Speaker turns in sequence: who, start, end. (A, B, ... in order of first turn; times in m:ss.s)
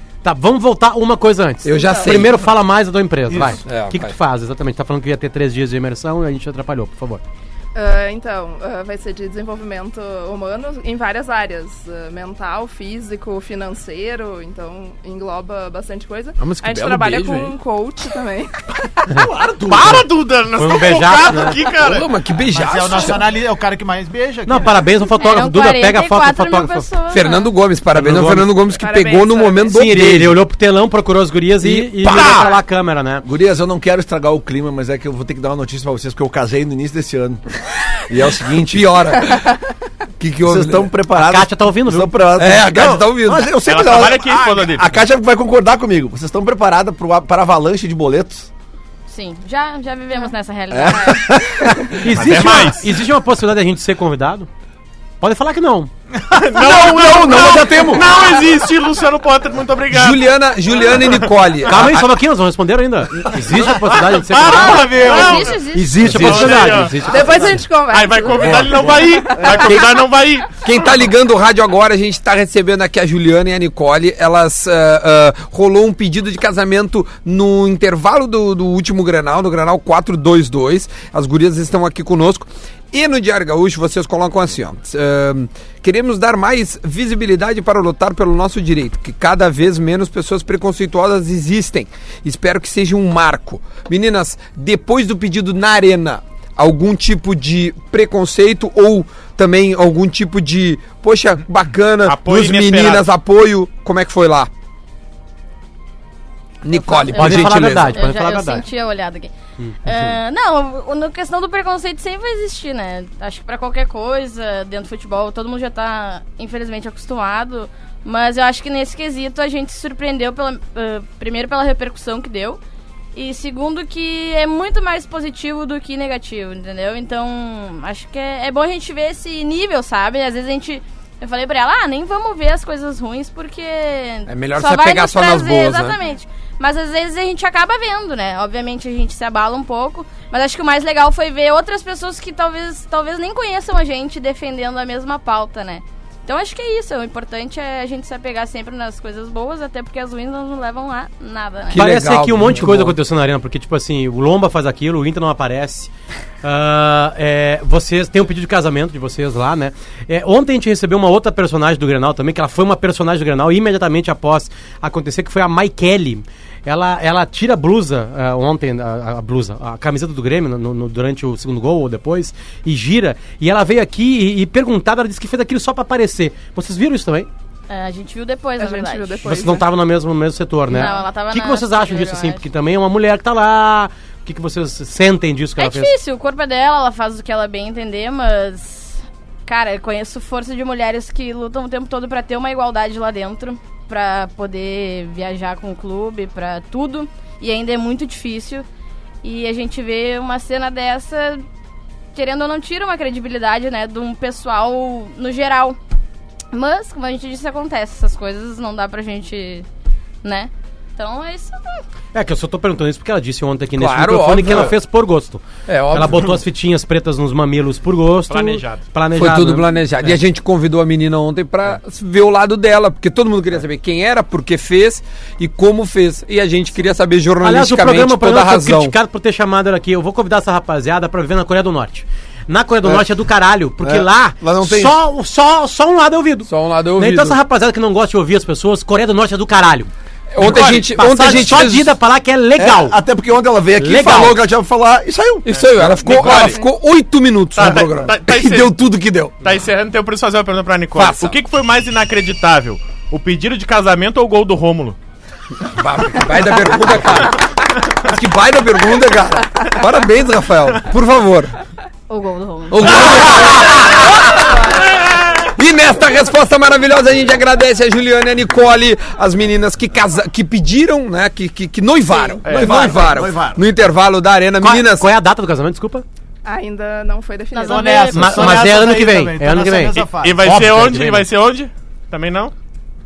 0:00.2-0:07.2 A
0:01.6-0:02.4 B
0:03.3-0:03.6 C
0:03.6-0:04.1 B
0:07.7-0:19.0 D
0:16.4-0:17.6 B
0:19.6-0:22.1 E
0:20.6-0:21.6 A
0:21.6-0:23.2 B
0:22.5-0:24.8 C
0:24.4-0:26.9 A
0:25.2-0:27.5 F
0:27.1-0:30.4 B
0:27.9-0:28.5 A
0:28.6-0:29.8 D
0:29.7-0:33.2 A
0:31.6-0:32.5 B
0:32.0-0:32.4 E
0:33.2-0:37.4 G
0:38.1-0:39.0 G
0:38.7-0:39.5 B
0:40.2-0:40.9 B
0:40.4-0:48.5 G
0:41.2-0:42.1 A
0:42.4-0:43.5 B
0:43.6-0:44.9 E
0:49.1-0:51.3 F
0:50.7-0:52.0 G
0:52.0-0:54.5 A
0:52.1-0:53.0 E
0:55.2-0:55.9 A
0:56.3-1:00.2 E
0:56.5-0:58.2 G
0:59.9-1:02.0 B
1:00.8-1:01.9 E
1:01.6-1:04.9 A
1:04.1-1:10.9 E
1:04.5-1:05.4 C
1:04.8-1:06.7 F
1:05.7-1:07.6 A
1:06.1-1:06.8 G
1:07.0-1:09.8 D
1:09.6-1:09.9 B
1:10.6-1:44.5 B
1:42.0-1:43.1 E
1:46.6-1:48.0 B
1:46.7-1:49.3 F
1:47.1-1:48.6 A
1:49.8-2:02.6 F
2:03.1-2:31.9 F
2:14.3-2:16.0 B
2:31.7-2:33.0 B
2:31.7-2:35.9 A
2:36.4-2:57.3 A
2:57.7-2:59.5 F
2:58.6-2:59.7 D
2:59.2-3:05.9 A
3:00.7-3:02.4 F
3:05.6-3:18.6 F
3:19.2-3:21.4 F
3:22.1-3:25.8 F
3:26.5-3:29.6 F
3:30.2-3:31.8 F
3:32.1-3:40.2 A
3:33.8-3:34.7 B
3:35.7-3:36.4 B
3:38.3-3:38.8 E
3:39.2-3:48.9 B
3:47.4-3:59.9 A
3:53.8-3:54.9 G
3:56.5-3:57.4 B
4:00.3-4:02.0 B
4:00.4-4:01.3 E
4:00.6-4:03.0 A
4:02.6-4:05.5 G
4:03.8-4:04.4 A
4:05.4-4:09.3 B
4:05.5-4:06.6 E
4:07.5-4:08.7 E
4:09.4-4:15.0 E
4:10.9-4:11.4 B
4:15.6-4:21.5 B
4:22.1-4:23.2 F
4:22.7-4:24.8 B
4:25.5-4:35.1 B
4:32.3-4:33.6 G
4:32.4-4:32.9 E
4:34.6-4:36.0 A
4:36.4-4:38.7 D
4:37.6-4:40.5 C
4:37.6-4:38.1 F
4:38.1-4:41.3 A
4:40.2-4:42.5 E